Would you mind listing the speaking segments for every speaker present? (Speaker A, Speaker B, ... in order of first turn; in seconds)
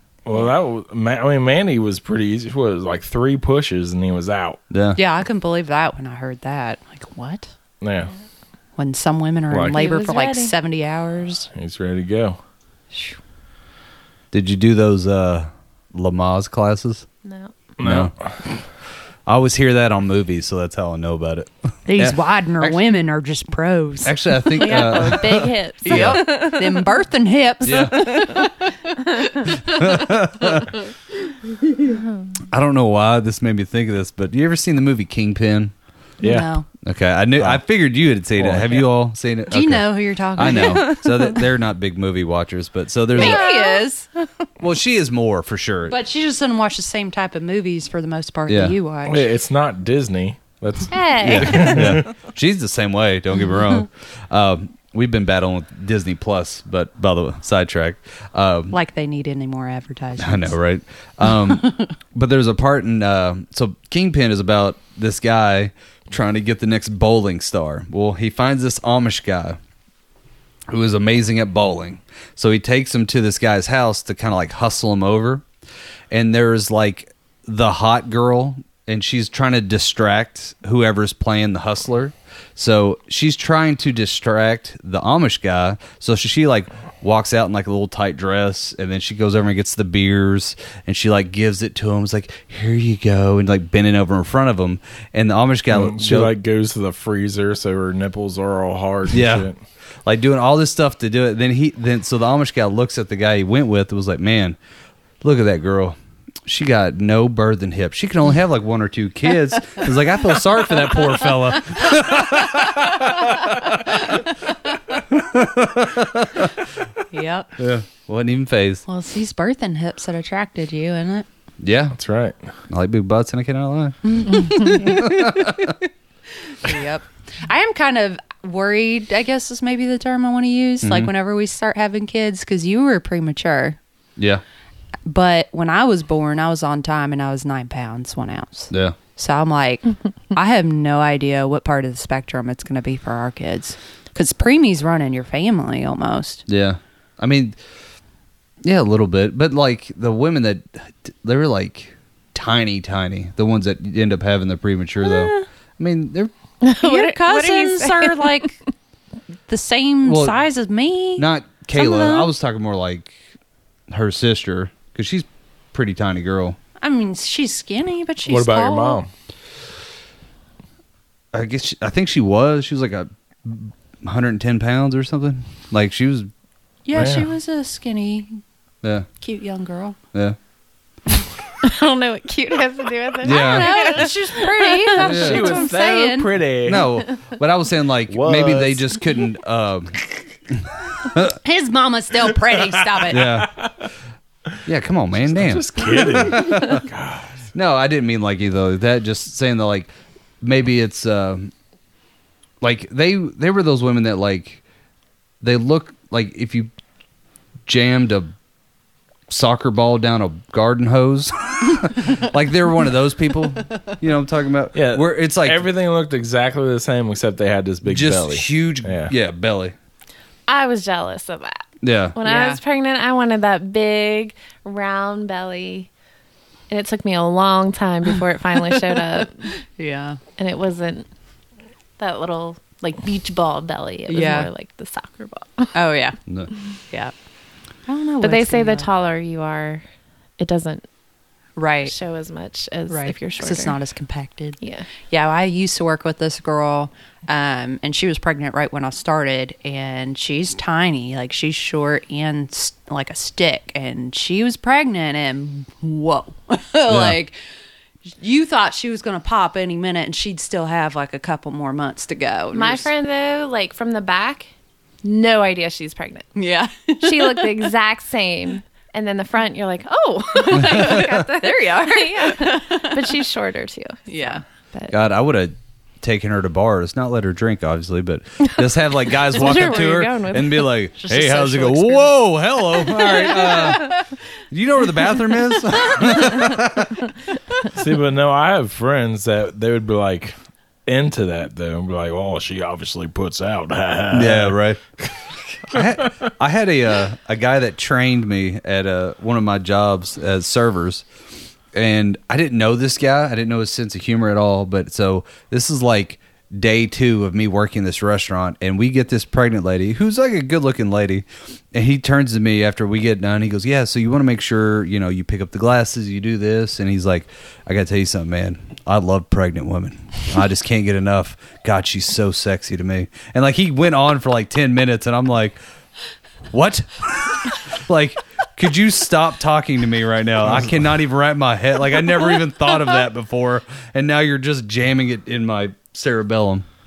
Speaker A: 0.2-4.6, 7.8-8.1, 11.5-12.4, 17.8-18.1, 36.2-36.5, 38.4-38.9, 49.0-52.1, 95.7-99.6, 121.9-122.4, 168.2-169.1, 176.9-177.3, 185.0-186.9, 188.1-188.9, 193.2-193.7, 195.2-197.5, 214.7-219.1, 287.7-295.1, 295.7-296.1, 330.4-330.7
Speaker B: 4.7-5.0, 14.3-17.0, 17.8-18.1, 19.2-22.8, 24.0-26.3, 27.6-28.0, 29.6-30.7, 32.5-35.7, 36.8-43.4, 44.6-46.0, 48.5-48.8, 51.2-58.8, 60.2-69.6, 70.7-75.4, 76.1-96.3, 99.1-99.5, 100.0-104.6, 105.2-114.1, 115.0-116.5, 117.6-118.8, 121.6-122.0, 122.7-125.7, 130.8-131.1, 134.2-134.4, 138.7-138.9, 146.5-147.6, 148.6-156.3, 160.0-160.3, 161.2-163.2, 163.9-166.6, 171.3-176.3, 183.2-184.0, 185.0-185.6, 186.6-190.0, 190.5-191.3, 193.1-193.5, 194.6-196.8, 197.5-199.9, 200.4-201.5, 202.6-204.6, 205.4-206.7, 207.7-208.3, 209.3-215.7, 217.8-219.7, 221.8-222.2, 256.9-257.2, 274.9-287.0, 294.1-294.8, 295.7-301.1, 301.7-325.6, 326.5-336.6
Speaker C: 5.0-7.5, 8.8-11.5, 21.9-24.1, 25.8-29.5, 36.2-36.6, 39.5-40.9, 43.1-44.0, 45.9-49.3, 58.7-60.6, 61.6-61.9, 117.1-117.5, 118.9-121.2, 124.1-125.7, 126.5-133.8, 135.1-146.4, 155.0-155.4, 156.8-158.6, 159.5-162.3, 166.8-169.0, 176.8-178.4, 179.2-180.0, 183.2-186.3, 191.4-193.3, 222.2-222.6, 228.7-230.2, 234.1-234.5, 235.7-236.2, 237.9-238.9, 241.6-241.9, 242.9-244.6, 245.1-257.4, 258.1-262.9, 266.4-267.7, 270.3-273.2, 274.1-274.4, 280.9-282.1, 282.8-284.0
Speaker D: 9.7-10.5, 17.2-17.5, 24.5-26.9, 43.1-43.8, 50.9-52.0, 156.6-158.5, 181.6-184.9, 220.5-221.6, 222.1-225.9, 226.7-229.5, 230.4-231.1, 232.0-235.7, 238.2-239.8, 240.4-240.8, 241.8-243.8, 244.6-244.9, 262.5-264.5, 265.0-266.3, 267.0-274.9, 279.2-280.7